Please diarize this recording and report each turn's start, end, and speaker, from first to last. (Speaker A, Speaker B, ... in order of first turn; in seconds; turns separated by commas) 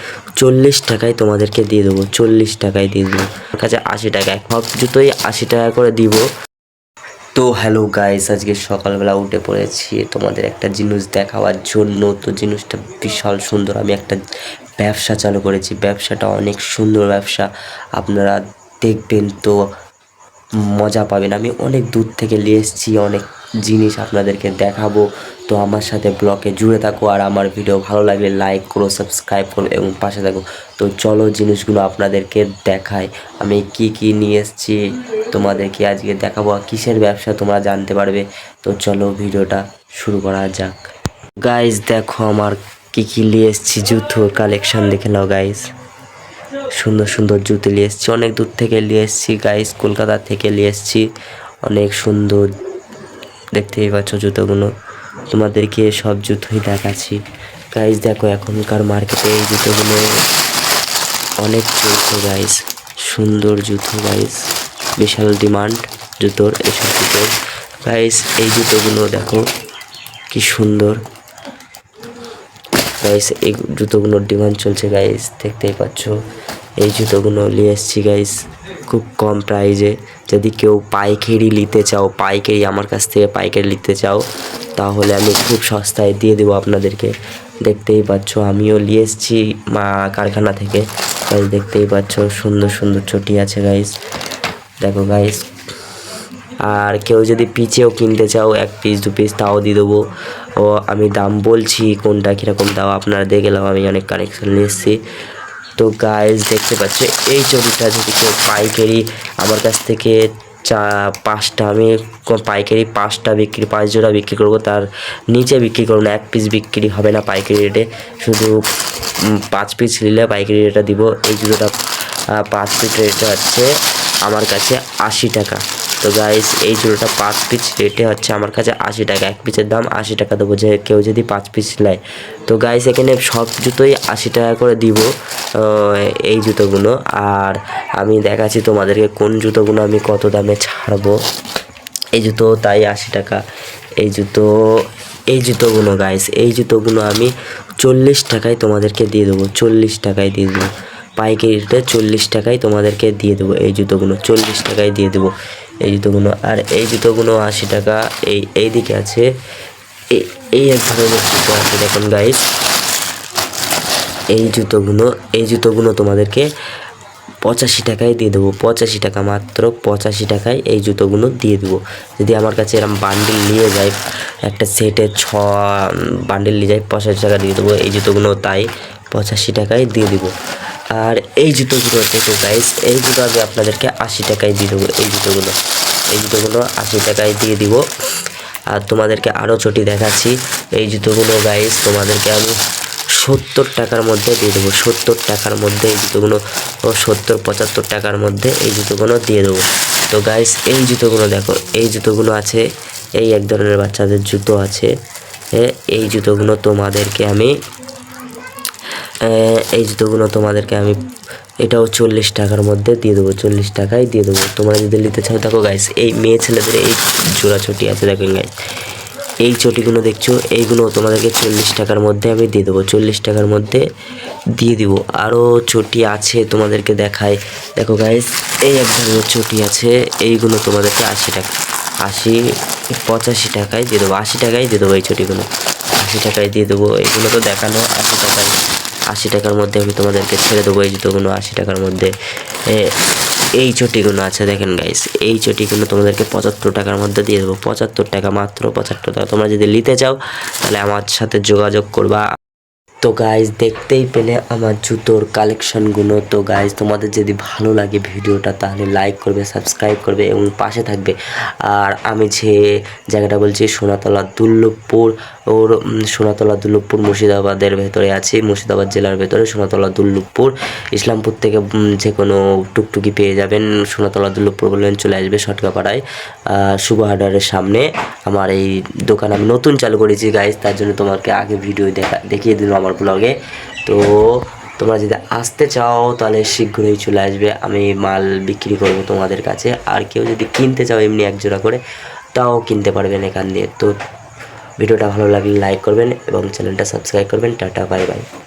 Speaker A: 0.4-6.2, Speaker A: 7.3-14.2, Speaker A: 14.8-19.6, Speaker A: 20.6-34.8, Speaker A: 35.3-40.8, Speaker A: 41.4-45.7, Speaker A: 46.8-51.1, Speaker A: 51.6-52.5, Speaker A: 53.5-54.7, Speaker A: 55.3-57.2, Speaker A: 57.7-60.1, Speaker A: 61.4-64.5, Speaker A: 65.0-67.3, Speaker A: 67.8-69.4, Speaker A: 70.3-71.0, Speaker A: 73.0-76.2, Speaker A: 76.8-84.2, Speaker A: 84.8-87.1, Speaker A: 87.6-93.9, Speaker A: 94.8-95.4, Speaker A: 96.6-100.0, Speaker A: 100.6-105.0, Speaker A: 105.8-118.6, Speaker A: 119.3-121.7, Speaker A: 122.4-123.7, Speaker A: 124.2-141.2, Speaker A: 142.2-143.4, Speaker A: 144.0-144.5, Speaker A: 145.3-155.3, Speaker A: 155.8-159.2, Speaker A: 160.1-162.4, Speaker A: 164.3-166.5, Speaker A: 167.4-173.9, Speaker A: 174.4-180.3, Speaker A: 180.9-185.6, Speaker A: 186.1-187.8, Speaker A: 188.7-192.5, Speaker A: 193.2-202.6, Speaker A: 203.2-204.9, Speaker A: 205.5-207.5, Speaker A: 209.2-211.0, Speaker A: 211.6-218.5, Speaker A: 219.4-223.8, Speaker A: 224.6-231.5, Speaker A: 232.0-232.4, Speaker A: 232.9-235.5, Speaker A: 236.0-238.5, Speaker A: 239.1-242.1, Speaker A: 242.7-242.9, Speaker A: 243.6-252.2, Speaker A: 253.0-262.6, Speaker A: 263.1-283.3, Speaker A: 283.9-291.8, Speaker A: 292.3-293.9, Speaker A: 294.8-298.2